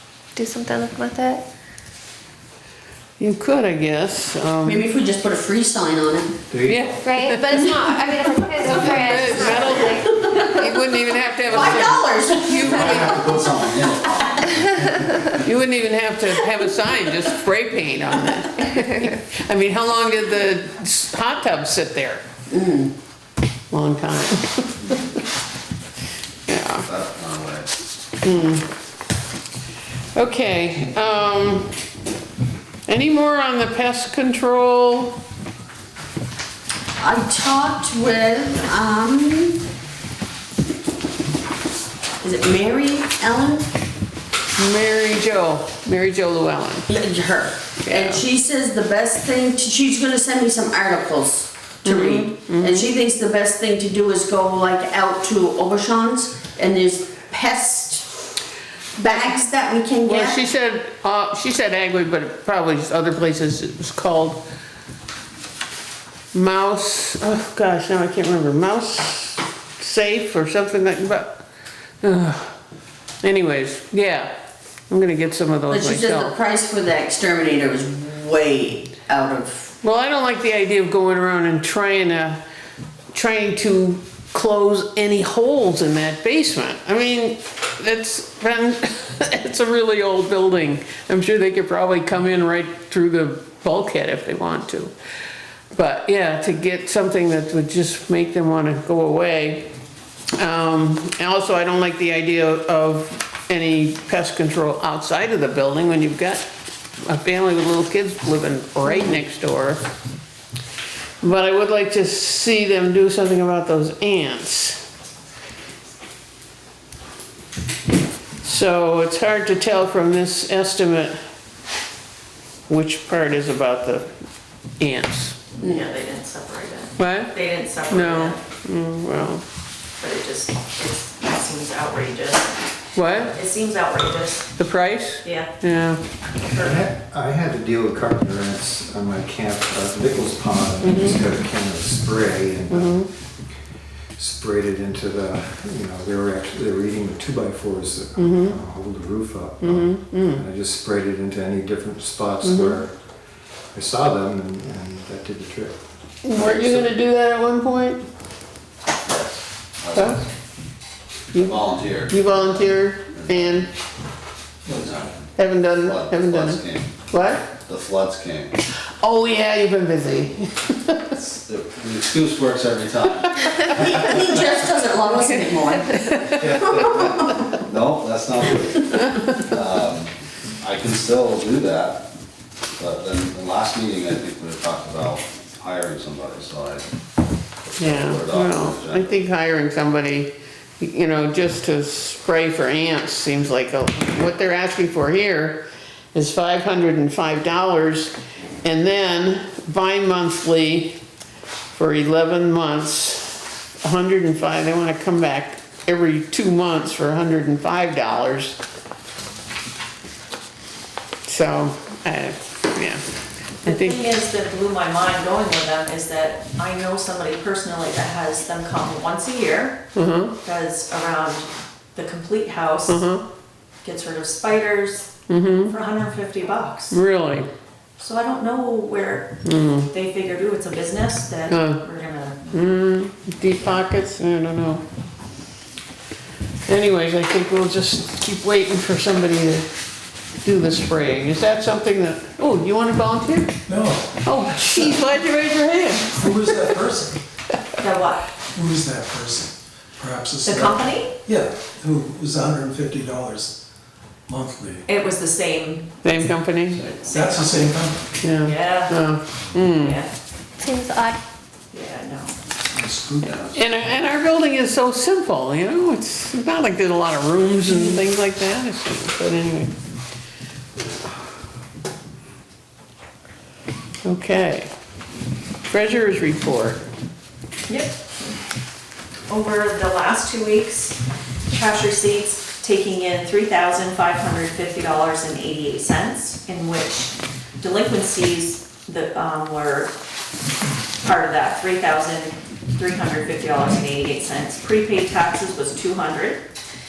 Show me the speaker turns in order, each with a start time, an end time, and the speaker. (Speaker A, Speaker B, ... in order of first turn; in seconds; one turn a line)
Speaker A: 0.3-1.4
Speaker B: 3.2-4.9
Speaker C: 4.7-6.4
Speaker D: 6.5-7.2
Speaker B: 6.7-8.0
Speaker A: 7.0-10.2
Speaker B: 8.6-13.0
Speaker C: 9.7-10.4
Speaker C: 11.5-14.2
Speaker E: 12.5-15.3
Speaker B: 15.4-22.2
Speaker C: 22.5-22.9
Speaker B: 23.7-25.0
Speaker B: 26.5-26.9
Speaker E: 26.8-27.7
Speaker B: 28.2-28.7
Speaker B: 30.1-31.7
Speaker B: 32.9-35.2
Speaker C: 37.0-39.6
Speaker C: 42.2-43.7
Speaker B: 44.6-46.9
Speaker C: 46.9-58.1
Speaker B: 47.8-48.2
Speaker B: 51.9-52.9
Speaker C: 59.0-60.4
Speaker B: 60.0-64.4
Speaker B: 66.3-71.4
Speaker B: 72.0-72.6
Speaker B: 73.2-74.3
Speaker B: 74.9-76.3
Speaker C: 75.7-79.7
Speaker B: 79.8-82.4
Speaker B: 83.1-94.9
Speaker B: 95.7-99.7
Speaker B: 100.4-106.5
Speaker B: 107.1-109.9
Speaker B: 111.2-114.8
Speaker B: 118.4-121.2
Speaker B: 122.7-124.1
Speaker B: 124.8-125.4
Speaker F: 125.6-128.4
Speaker B: 127.0-127.3
Speaker B: 127.9-129.4
Speaker F: 130.0-134.5
Speaker B: 132.9-133.3
Speaker B: 134.6-136.0
Speaker F: 135.2-135.5
Speaker D: 136.5-143.1
Speaker F: 136.5-136.8
Speaker B: 140.8-141.2
Speaker B: 142.7-143.1
Speaker D: 144.2-152.9
Speaker B: 148.2-148.6
Speaker B: 149.6-150.4
Speaker B: 152.4-152.8
Speaker D: 153.7-155.8
Speaker B: 156.2-158.0
Speaker D: 156.4-156.9
Speaker E: 159.1-160.2
Speaker B: 159.9-160.2
Speaker B: 161.3-163.7
Speaker E: 161.4-163.7
Speaker G: 164.7-165.1
Speaker E: 164.7-165.1
Speaker B: 165.4-167.5
Speaker E: 165.8-166.9
Speaker E: 167.6-168.5
Speaker B: 169.0-171.2
Speaker E: 171.1-174.5
Speaker C: 173.6-177.5
Speaker B: 175.9-176.3
Speaker E: 176.3-182.1
Speaker E: 182.8-186.9
Speaker E: 187.7-189.2
Speaker B: 187.8-201.0
Speaker B: 201.7-208.6
Speaker B: 211.2-213.0
Speaker B: 213.6-214.0
Speaker F: 213.6-219.8
Speaker B: 219.9-220.4
Speaker F: 220.4-223.0
Speaker B: 222.9-223.2
Speaker F: 223.8-225.1
Speaker B: 225.3-225.8
Speaker F: 225.7-227.0
Speaker B: 226.9-227.5
Speaker F: 228.0-229.3
Speaker B: 229.4-229.9
Speaker F: 229.9-232.4
Speaker B: 231.5-231.8
Speaker B: 232.5-234.8
Speaker B: 236.7-239.7
Speaker B: 240.4-243.5
Speaker G: 243.7-245.0
Speaker B: 244.2-246.6
Speaker G: 246.2-247.2
Speaker F: 247.8-248.3
Speaker G: 248.5-253.6
Speaker F: 250.4-251.2
Speaker G: 254.3-254.8
Speaker F: 254.9-255.9
Speaker B: 256.0-256.8
Speaker E: 256.7-257.2
Speaker F: 257.0-257.7
Speaker G: 257.1-258.1
Speaker B: 258.2-260.0
Speaker F: 258.4-259.0
Speaker F: 259.6-260.1
Speaker A: 260.6-261.2
Speaker F: 261.7-262.4
Speaker G: 262.7-263.6
Speaker E: 263.2-263.5
Speaker B: 263.5-269.7
Speaker B: 274.0-274.7
Speaker B: 275.7-276.8
Speaker F: 277.7-278.0
Speaker F: 279.3-289.9
Speaker F: 291.0-296.5